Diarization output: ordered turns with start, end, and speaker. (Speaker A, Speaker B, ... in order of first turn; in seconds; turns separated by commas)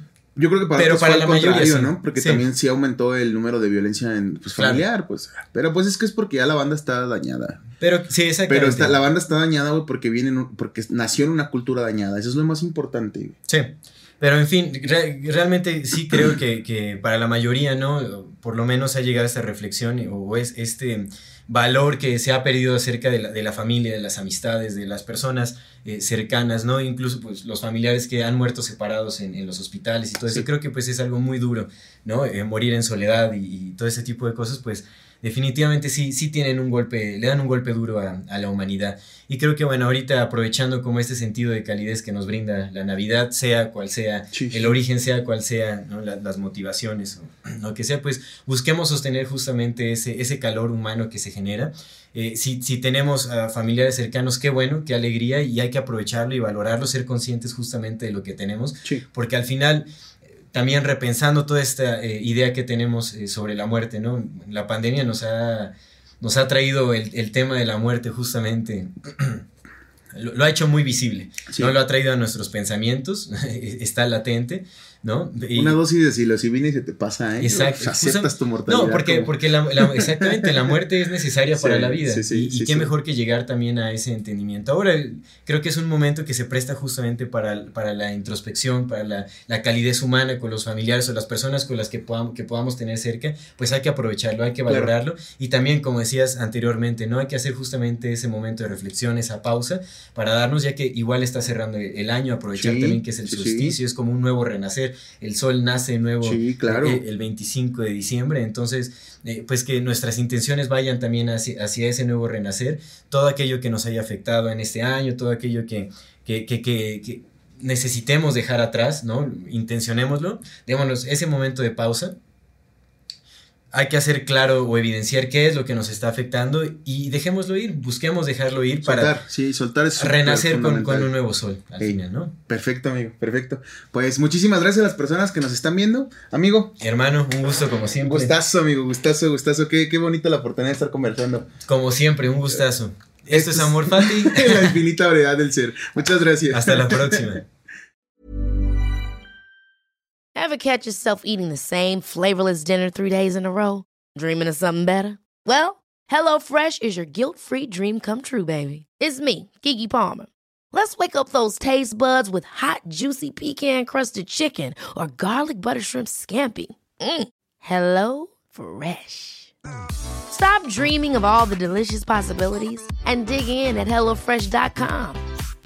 Speaker A: 0.3-7.6, Speaker B: 0.8-2.4, Speaker B: 4.5-4.8, Speaker B: 7.8-9.0, Speaker A: 8.5-13.3, Speaker B: 13.5-59.9, Speaker A: 44.3-44.7, Speaker B: 60.5-69.4, Speaker B: 70.1-75.8, Speaker A: 71.5-71.7, Speaker A: 75.5-80.5, Speaker B: 77.4-122.1, Speaker A: 81.6-82.9, Speaker A: 94.7-94.9, Speaker A: 102.5-103.8, Speaker A: 106.2-107.0, Speaker B: 123.7-129.1, Speaker A: 128.8-131.1, Speaker B: 130.0-132.3, Speaker A: 131.8-136.7, Speaker B: 136.8-138.3, Speaker A: 138.0-141.5, Speaker B: 141.7-144.8, Speaker A: 143.3-147.3, Speaker B: 146.5-147.4, Speaker C: 150.3-169.5, Speaker C: 170.3-175.2